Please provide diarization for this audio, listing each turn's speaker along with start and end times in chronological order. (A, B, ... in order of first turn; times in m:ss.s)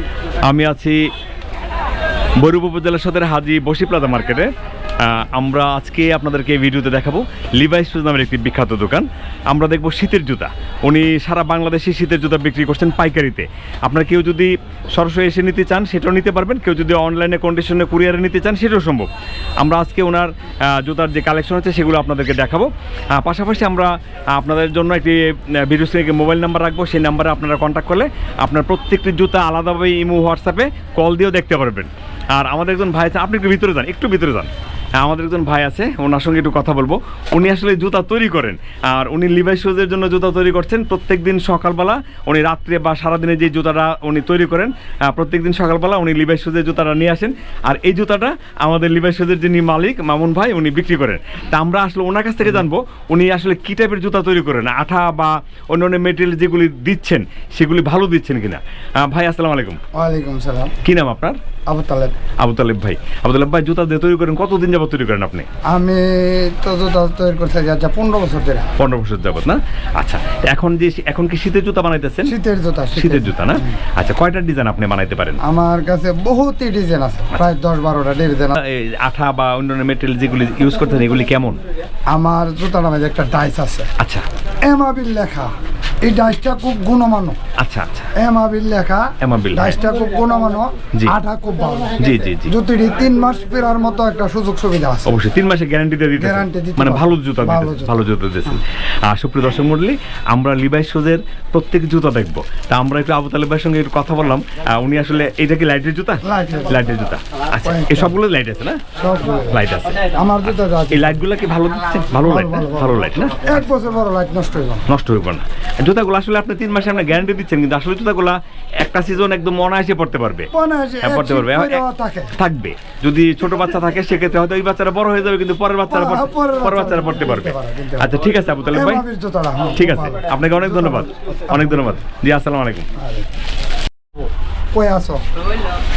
0:00.4-0:01.1 A
0:02.4-0:59.8 A
0:59.9-1:00.7 B
1:00.8-1:01.4 A
1:01.7-1:02.2 B
1:02.4-1:05.5 A
1:05.7-1:08.7 B
1:08.8-1:12.3 A
1:12.2-1:13.7 B
1:12.9-1:15.4 A
1:15.4-1:18.6 B
1:18.6-1:21.6 A
1:22.1-1:23.9 B
1:24.0-1:24.2 A
1:24.7-1:25.5 B
1:26.0-1:27.4 B
1:27.6-1:28.1 A
1:28.2-1:35.2 B
1:29.2-1:29.8 A
1:32.0-1:32.5 A
1:35.0-1:48.8 A
1:36.2-1:38.5 B
1:46.2-1:46.8 B
1:47.6-1:48.1 B
1:49.0-1:51.2 B
1:49.5-1:53.6 A
1:52.2-1:54.8 B
1:54.9-2:00.5 A
2:00.5-2:02.3 B
2:01.0-2:01.8 A
2:02.4-2:09.0 A
2:05.9-2:11.9 B
2:09.7-2:12.9 A
2:13.0-2:13.2 B
2:14.7-2:15.2 B